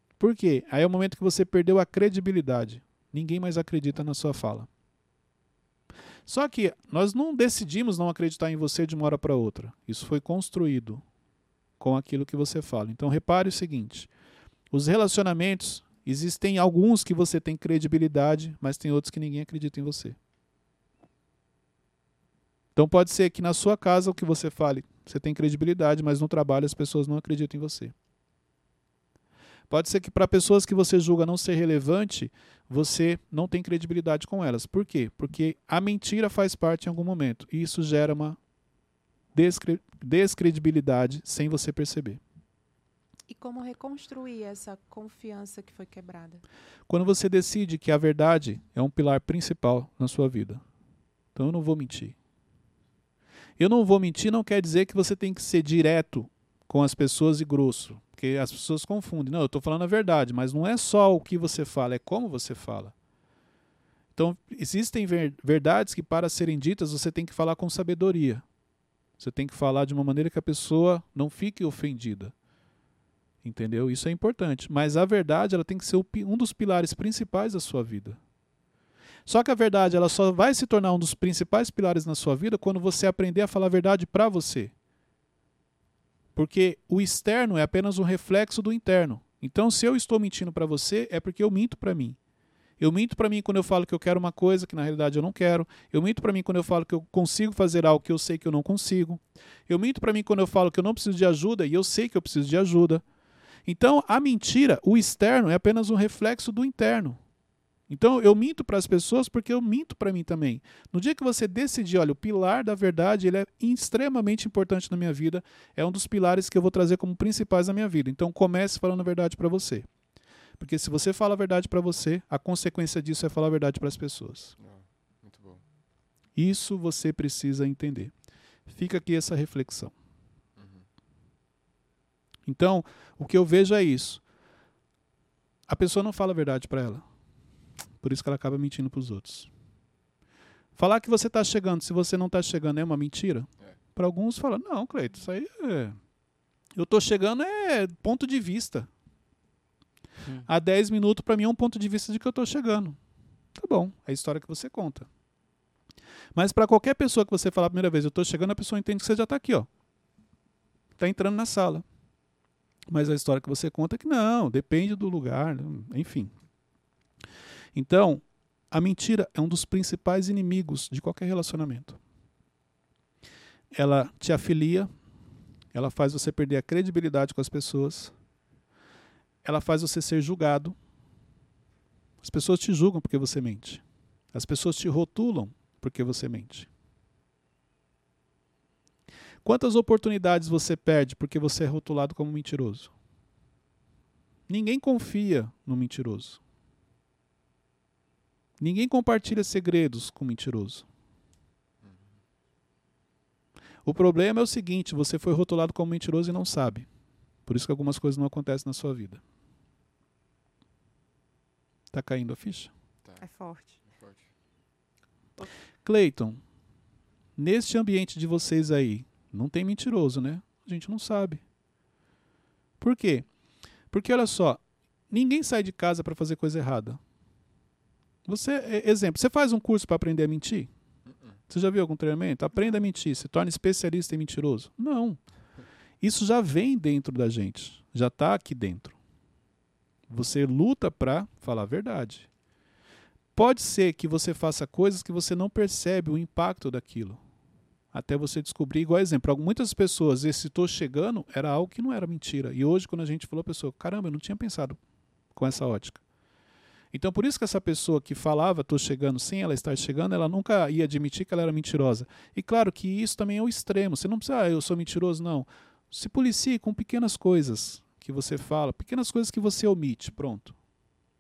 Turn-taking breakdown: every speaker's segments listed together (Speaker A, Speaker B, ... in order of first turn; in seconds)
Speaker A: 0.2-4.7, 6.3-11.0, 11.8-14.1, 14.7-20.2, 22.8-27.9, 29.7-38.4, 39.4-42.2, 46.9-50.6, 51.4-52.2, 53.6-62.9, 64.2-68.5, 69.2-72.3, 73.4-78.2, 79.3-84.7, 86.3-92.2, 92.8-103.0, 103.7-107.2, 107.9-119.9, 120.6-124.5, 126.3-128.1, 128.7-129.9, 132.5-134.2, 135.7-137.0, 138.0-139.5, 140.8-146.0, 146.8-148.9, 150.4-153.0, 153.6-155.1, 156.3-159.7, 161.0-161.8, 162.9-166.3, 167.7-172.0, 173.8-174.9, 175.7-178.1, 179.4-180.8, 182.2-183.8, 184.3-186.7, 189.4-192.9, 194.5-196.4, 198.6-200.8, 203.8-206.9, 207.5-209.2, 211.9-212.7, 215.8-216.4, 217.4-221.4, 222.8-223.3, 223.9-227.0, 228.3-230.7, 231.5-235.2, 236.0-239.0, 240.1-242.3, 243.3-247.2, 247.9-254.8, 255.3-256.0, 256.9-270.6
Speaker B: 43.3-46.4, 213.2-213.8
Speaker C: 124.6-125.6, 130.6-130.8, 201.8-202.2, 213.8-214.2, 231.1-231.3